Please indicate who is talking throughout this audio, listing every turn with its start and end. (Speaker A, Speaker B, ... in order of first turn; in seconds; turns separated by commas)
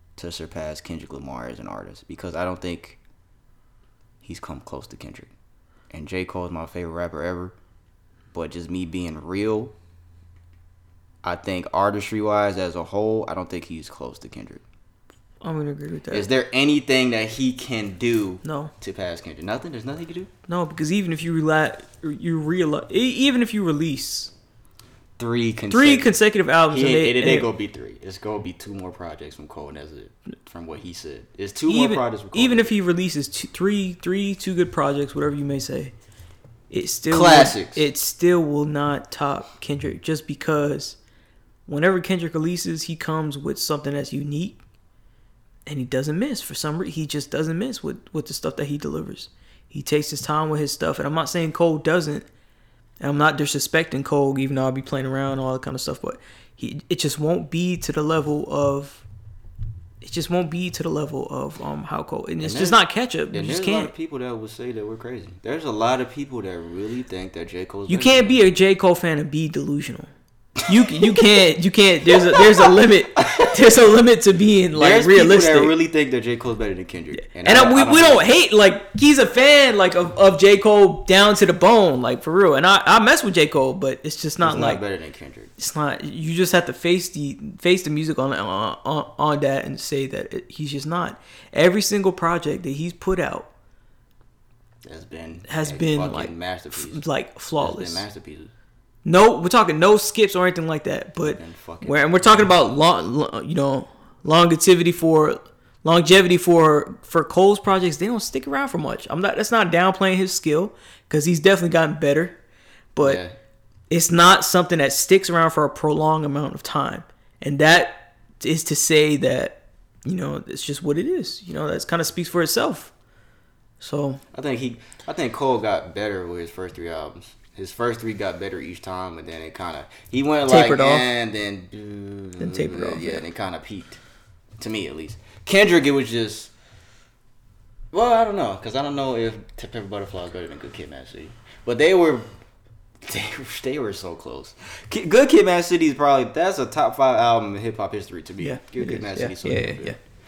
Speaker A: 0.2-3.0, Speaker A: 4.2-5.3, Speaker A: 5.9-7.5, Speaker A: 8.3-9.7, Speaker A: 11.2-14.6, Speaker B: 15.4-16.3, Speaker A: 16.1-20.3, Speaker B: 18.4-18.7, Speaker B: 20.5-24.3, Speaker A: 25.2-26.1, Speaker B: 25.7-27.5, Speaker A: 26.7-32.7, Speaker B: 31.7-35.9, Speaker B: 36.7-41.0, Speaker A: 37.1-37.8, Speaker B: 41.6-44.6, Speaker B: 45.6-52.3, Speaker B: 53.0-59.0, Speaker B: 60.0-63.9, Speaker A: 62.4-62.8, Speaker A: 63.3-68.3, Speaker B: 67.9-70.1, Speaker B: 70.7-75.7, Speaker A: 74.7-78.2, Speaker B: 77.2-84.8, Speaker A: 84.4-85.5, Speaker B: 85.6-93.5, Speaker A: 94.8-97.0, Speaker B: 95.5-98.0, Speaker A: 97.6-98.5, Speaker B: 99.0-112.3, Speaker A: 101.2-102.0, Speaker B: 112.9-113.2, Speaker A: 113.0-113.3, Speaker B: 113.9-122.9, Speaker B: 123.8-124.2, Speaker A: 124.3-134.0, Speaker B: 130.5-131.1, Speaker B: 132.4-133.2, Speaker A: 134.6-136.5, Speaker A: 137.9-142.3, Speaker A: 143.0-149.9, Speaker B: 148.4-150.0